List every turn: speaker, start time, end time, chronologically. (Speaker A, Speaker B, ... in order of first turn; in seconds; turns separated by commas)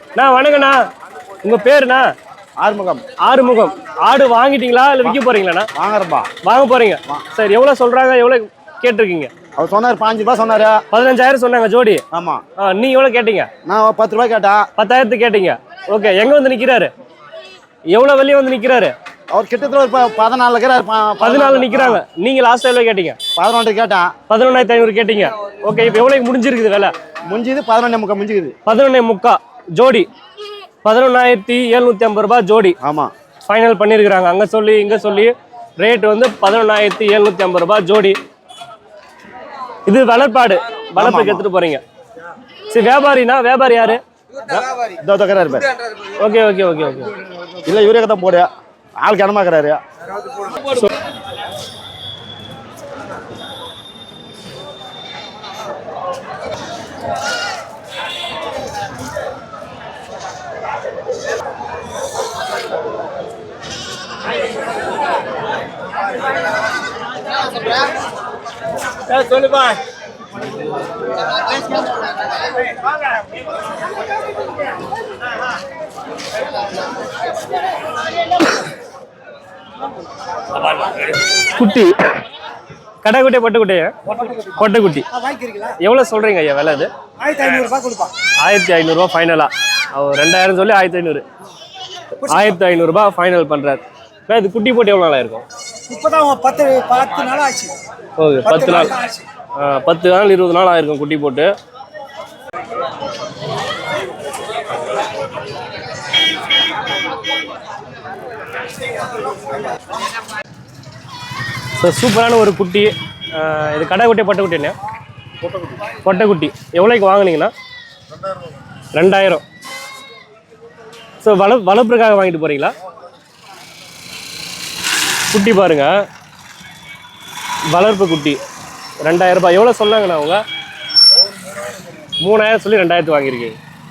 Speaker A: 0.1-0.8, Speaker A: 1.4-2.1, Speaker B: 2.6-3.0, Speaker A: 3.2-5.7, Speaker B: 5.8-6.3, Speaker A: 6.4-9.3, Speaker B: 9.6-10.8, Speaker A: 10.9-12.0, Speaker B: 12.1-12.4, Speaker A: 12.6-13.5, Speaker B: 13.6-14.7, Speaker A: 14.8-16.9, Speaker A: 17.9-18.9, Speaker B: 19.3-22.0, Speaker A: 21.2-23.2, Speaker B: 23.4-24.1, Speaker A: 24.3-26.9, Speaker B: 27.3-28.5, Speaker A: 28.6-30.1, Speaker A: 30.8-32.8, Speaker B: 32.8-33.1, Speaker A: 33.5-38.2, Speaker A: 39.9-41.8, Speaker B: 41.0-41.5, Speaker A: 42.7-44.0, Speaker B: 44.5-45.6, Speaker A: 46.2-47.1, Speaker B: 47.6-49.8, Speaker A: 81.5-81.9, Speaker A: 83.0-85.0, Speaker C: 85.2-85.7, Speaker A: 85.8-86.9, Speaker C: 87.3-88.1, Speaker A: 88.4-91.2, Speaker A: 92.2-95.4, Speaker C: 95.9-97.7, Speaker A: 98.2-99.0, Speaker C: 98.5-99.2, Speaker A: 99.5-101.5, Speaker A: 111.8-114.7, Speaker A: 116.0-117.5, Speaker A: 118.9-119.4, Speaker A: 121.2-122.7, Speaker A: 125.3-125.9, Speaker A: 127.7-128.4, Speaker A: 129.0-130.4, Speaker A: 132.2-133.6